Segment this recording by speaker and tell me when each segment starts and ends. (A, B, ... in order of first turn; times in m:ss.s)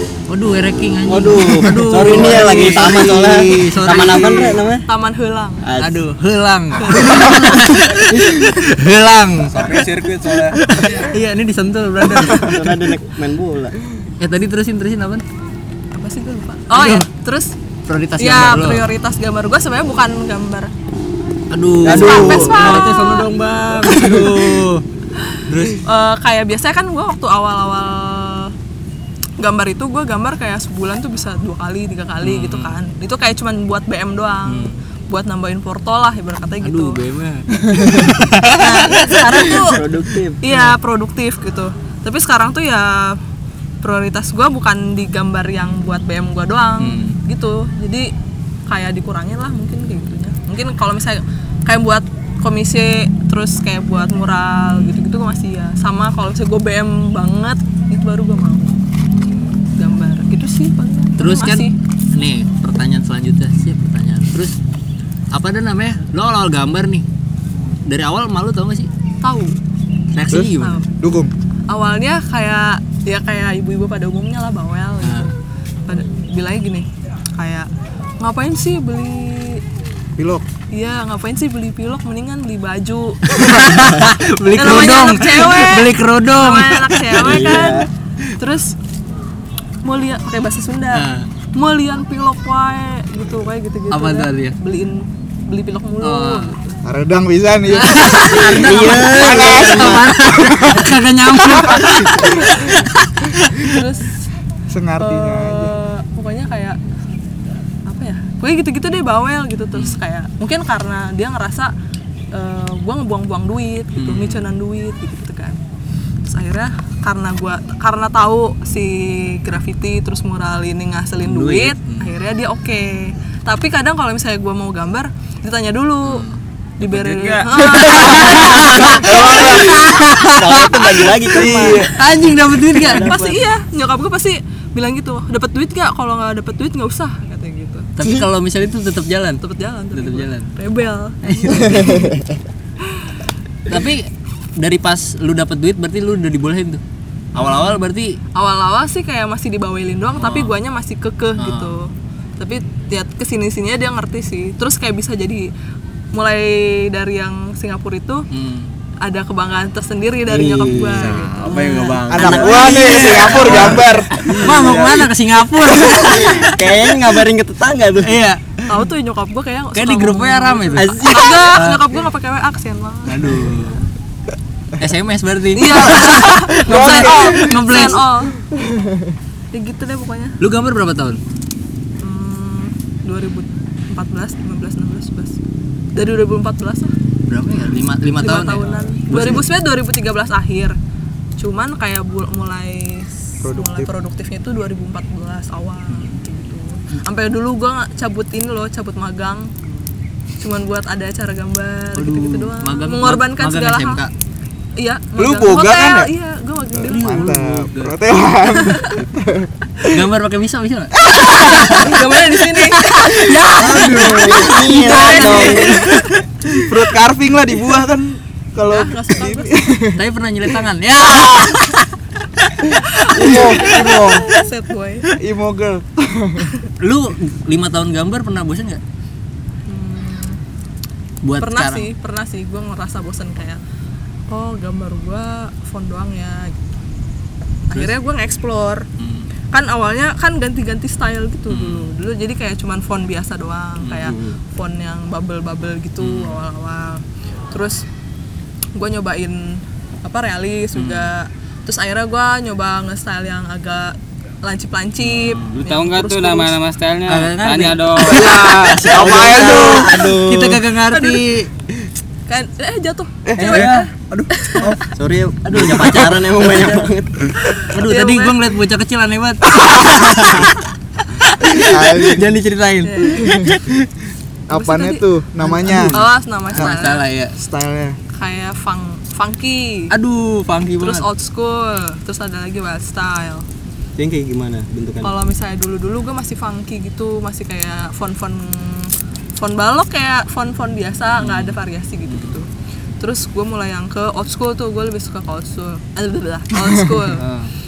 0:00.3-0:04.6 A
0:01.1-0:04.8 B
0:04.9-0:05.6 C
0:05.6-0:06.0 B
0:05.8-0:09.7 A
0:06.8-0:07.3 C
0:08.1-0:08.5 B
0:09.4-0:10.6 D
0:10.6-0:12.8 A
0:10.7-0:11.2 C
0:12.3-0:13.8 B
0:14.2-0:15.2 A
0:15.9-0:17.5 C
0:16.7-0:17.1 A
0:17.9-0:18.8 A
0:18.2-0:20.7 C
0:21.5-0:24.8 A
0:21.8-0:23.2 B
0:21.8-0:23.3 C
0:23.8-0:24.6 B
0:25.3-0:28.5 C
0:25.5-0:25.8 A
0:29.4-0:37.0 C
0:32.2-0:32.8 A
0:34.4-0:34.8 A
0:36.6-0:39.4 A
0:37.7-0:38.0 E
0:38.5-0:39.8 C
0:39.4-0:40.7 B
0:40.4-0:43.2 C
0:43.8-0:48.1 C
0:46.8-0:47.2 A
0:48.7-1:01.7 C
0:54.7-0:55.0 A
1:01.2-1:04.6 A
1:05.3-1:07.0 A
1:07.8-1:08.9 A
1:09.2-1:09.6 C
1:10.1-1:10.8 A
1:10.3-1:11.3 E
1:10.6-1:10.9 C
1:11.7-1:15.3 C
1:15.0-1:15.3 A
1:15.9-1:17.7 C
1:18.2-1:19.6 C
1:20.2-1:20.4 E
1:20.7-1:23.8 C
1:23.3-1:27.7 A
1:24.5-1:27.8 C
1:27.2-1:27.9 B
1:28.4-1:28.7 C
1:29.8-1:36.8 C
1:30.9-1:31.3 A
1:33.9-1:34.6 A
1:36.0-1:36.5 A
1:36.8-1:40.9 E
1:37.7-1:43.7 A
1:37.9-1:38.6 C
1:38.5-1:40.1 B
1:41.5-1:42.3 E
1:42.2-1:42.7 C
1:43.6-1:44.3 C
1:44.7-1:45.7 E
1:45.0-1:46.8 C
1:47.8-1:51.7 C
1:52.3-1:55.6 C
1:53.9-1:54.5 A
1:56.2-2:06.2 C
2:01.2-2:02.2 A
2:06.0-2:13.2 A
2:06.8-2:09.4 C
2:09.0-2:09.8 E
2:09.0-2:09.6 B
2:10.3-2:11.9 B
2:11.3-2:11.9 E
2:12.7-2:13.4 B
2:12.9-2:17.9 C
2:18.0-2:19.4 A
2:19.4-2:22.0 C
2:19.9-2:20.5 A
2:21.2-2:22.1 A
2:23.7-2:26.8 A
2:27.3-2:28.2 A
2:27.3-2:35.5 C
2:30.2-2:30.5 A
2:31.4-2:31.8 A
2:36.1-2:38.2 C
2:38.3-2:38.7 A
2:39.0-2:43.8 C
2:40.3-2:41.3 B
2:41.0-2:43.0 D
2:41.5-2:43.8 A
2:42.1-2:44.3 E
2:44.3-2:44.7 B
2:44.4-2:46.8 A
2:44.4-2:45.0 D
2:45.8-2:48.2 B
2:48.0-2:48.4 A
2:48.7-2:53.8 C
2:49.7-2:51.9 A
2:50.8-2:51.5 B
2:53.1-2:53.8 A
2:54.8-2:58.0 A
2:55.5-2:58.3 C
2:56.6-2:57.7 E
2:58.5-2:59.1 E
2:59.5-3:00.4 C
3:00.4-3:01.2 A
3:02.0-3:05.4 C
3:05.9-3:06.9 C
3:07.3-3:09.4 A
3:08.2-3:10.8 C
3:11.4-3:19.5 C
3:13.4-3:13.9 E
3:15.9-3:16.2 A
3:20.4-3:24.0 C
3:22.0-3:24.1 A
3:24.8-3:27.3 C
3:25.2-3:26.1 E
3:26.8-3:29.5 E
3:26.8-3:27.9 A
3:28.6-3:28.9 C
3:29.9-3:31.0 A
3:31.1-3:31.7 E
3:31.2-3:36.2 C
3:33.2-3:35.6 E
3:33.7-3:35.9 B
3:36.5-3:40.0 E
3:38.7-3:39.6 C
3:40.0-3:41.8 A
3:42.8-3:45.1 C
3:43.1-3:44.3 E
3:45.2-3:46.5 E
3:46.8-3:48.8 A
3:49.7-3:50.4 C
3:51.2-3:51.9 A
3:51.4-3:53.6 C
3:54.3-3:56.6 C
3:57.7-3:58.8 C
3:59.0-3:59.3 A
3:59.5-4:07.8 C
4:01.5-4:01.9 A
4:04.0-4:04.4 B
4:06.0-4:06.4 A
4:08.7-4:16.6 C
4:10.8-4:11.1 A
4:15.0-4:15.5 A
4:15.5-4:18.2 F
4:17.1-4:21.5 A
4:18.0-4:19.9 E
4:18.2-4:20.6 B
4:20.9-4:21.2 C
4:22.3-4:24.7 C
4:23.2-4:24.8 E
4:23.4-4:23.8 B
4:23.4-4:23.8 A
4:24.9-4:27.3 B
4:25.4-4:26.9 A
4:27.4-4:28.4 C
4:27.7-4:30.5 A
4:31.4-4:32.8 A
4:31.7-4:32.4 E
4:32.1-4:33.7 B
4:32.8-4:33.3 C
4:33.2-4:33.6 E
4:34.5-4:36.8 E
4:34.5-4:37.0 C
4:35.6-4:37.4 A
4:37.3-4:38.0 E
4:38.1-4:39.9 C
4:39.9-4:41.0 A
4:40.8-4:43.4 C
4:44.0-4:45.1 B
4:45.0-4:52.5 C
4:51.2-4:52.4 A
4:53.0-4:57.2 C
4:57.1-4:57.5 A